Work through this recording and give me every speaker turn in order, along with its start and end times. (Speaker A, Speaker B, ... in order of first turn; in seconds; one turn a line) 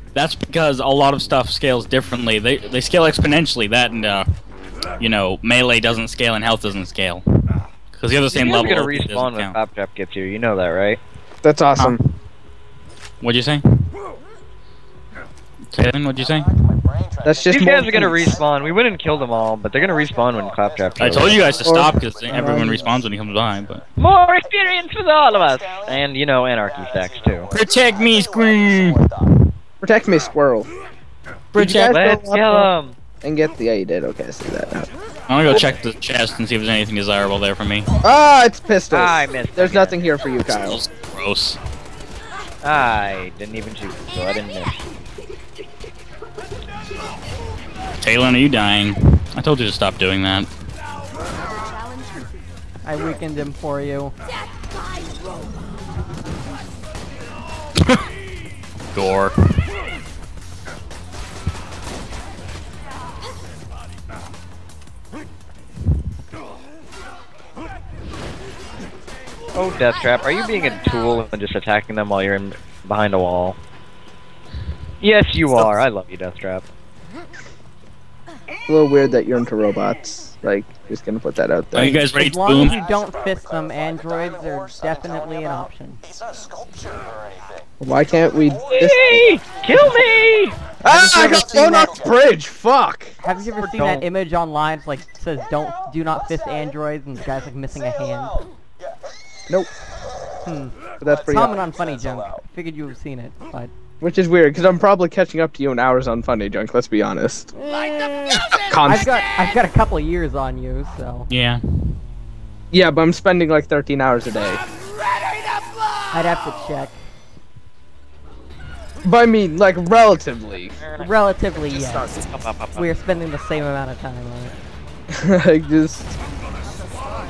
Speaker A: 0.1-4.3
Speaker A: 5.0-7.2
Speaker A: 7.9-9.6
Speaker B: 8.3-11.0
Speaker C: 11.4-12.0
Speaker A: 13.2-13.6
Speaker A: 15.7-16.5
Speaker C: 17.2-18.2
Speaker B: 17.5-21.6
Speaker A: 21.0-23.8
Speaker C: 21.6-22.8
Speaker D: 22.3-22.8
Speaker B: 24.0-27.5
Speaker A: 27.5-29.1
Speaker C: 29.8-30.7
Speaker C: 31.5-32.7
Speaker B: 31.5-32.9
Speaker C: 33.2-34.9
Speaker A: 35.3-37.9
Speaker C: 38.0-40.8
Speaker B: 38.9-40.0
Speaker A: 40.5-41.6
Speaker B: 42.6-44.9
Speaker A: 48.0-50.5
Speaker D: 52.8-54.1
Speaker A: 58.9-59.3
Speaker B: 69.5-73.6
Speaker B: 75.0-76.7
Speaker C: 78.7-82.0
Speaker A: 81.7-82.8
Speaker D: 81.8-86.0
Speaker C: 87.8-89.2
Speaker B: 88.7-90.6
Speaker D: 90.8-92.0
Speaker C: 90.8-93.1
Speaker D: 93.2-98.4
Speaker B: 93.6-94.1
Speaker D: 100.4-100.7
Speaker C: 101.0-101.6
Speaker D: 101.2-103.7
Speaker C: 104.0-107.5
Speaker D: 107.5-111.3
Speaker C: 108.4-109.1
Speaker A: 111.3-111.6
Speaker C: 112.7-114.6
Speaker D: 116.1-117.0
Speaker C: 119.0-120.8
Speaker B: 120.8-121.1
Speaker D: 121.0-122.1
Speaker B: 121.7-122.8
Speaker D: 122.7-124.5
Speaker C: 125.1-126.1